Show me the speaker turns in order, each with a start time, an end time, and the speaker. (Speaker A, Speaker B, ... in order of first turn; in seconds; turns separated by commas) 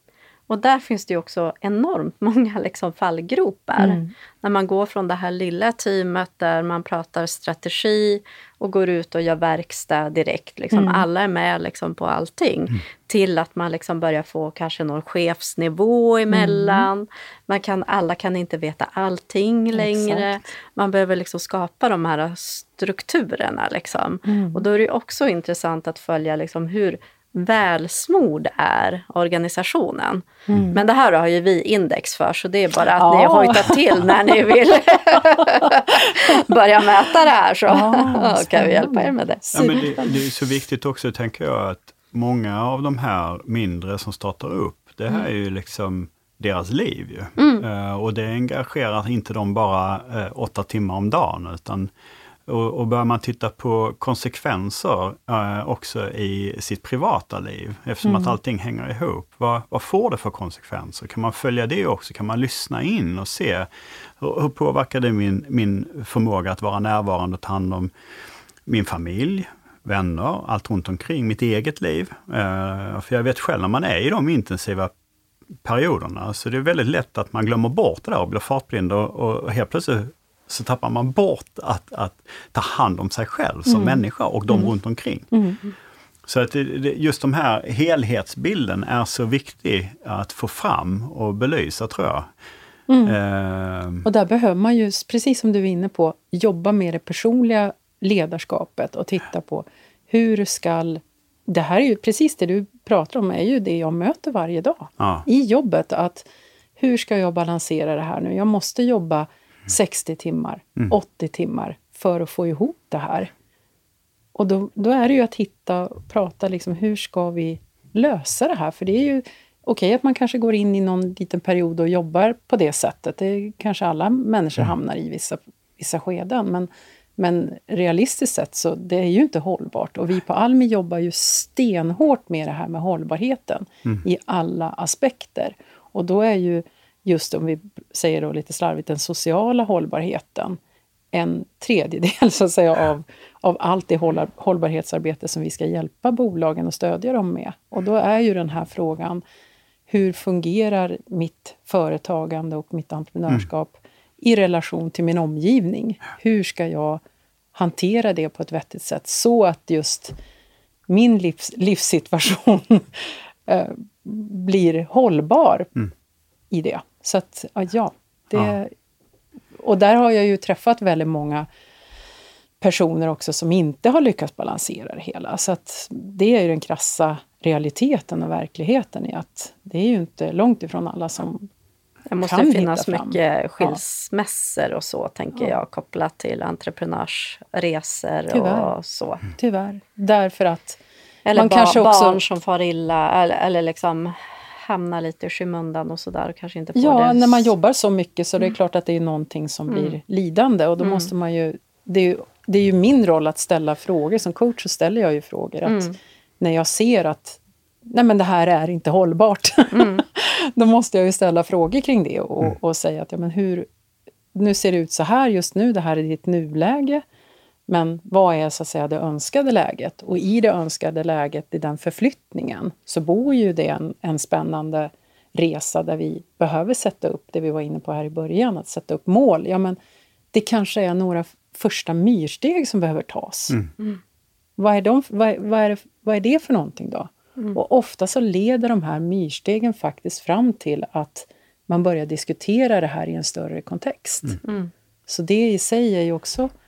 Speaker A: 0.5-39.8, Speaker B: 3.8-4.1, Speaker B: 10.7-11.1, Speaker B: 16.3-16.9, Speaker B: 19.7-20.4, Speaker B: 24.3-24.6, Speaker B: 30.5-30.8, Speaker B: 33.0-34.5, Speaker B: 37.7-40.2, Speaker C: 39.5-51.9, Speaker A: 47.4-47.6, Speaker C: 52.5-67.9, Speaker B: 58.0-58.4, Speaker C: 68.7-74.9, Speaker C: 75.6-85.3, Speaker B: 83.7-84.7, Speaker B: 85.3-85.6, Speaker C: 86.2-92.3, Speaker B: 92.9-93.2, Speaker C: 93.0-94.1, Speaker B: 94.0-106.3, Speaker C: 105.0-105.3, Speaker B: 106.8-113.3, Speaker B: 114.3-140.6, Speaker B: 141.1-149.2, Speaker B: 149.9-157.0, Speaker B: 157.5-160.1, Speaker B: 160.9-165.8, Speaker B: 166.5-168.7, Speaker B: 169.6-171.5, Speaker B: 172.6-181.5, Speaker A: 182.1-189.2, Speaker B: 182.2-183.8, Speaker B: 188.3-188.7, Speaker B: 189.3-190.8, Speaker A: 191.3-197.5, Speaker B: 191.3-192.2, Speaker B: 196.8-213.7, Speaker A: 199.7-200.0, Speaker A: 200.8-201.1, Speaker A: 205.7-205.9, Speaker A: 209.7-210.0, Speaker B: 214.3-217.0, Speaker B: 217.7-229.8, Speaker B: 230.3-233.6, Speaker B: 234.6-244.4, Speaker A: 244.4-244.7, Speaker B: 245.1-246.5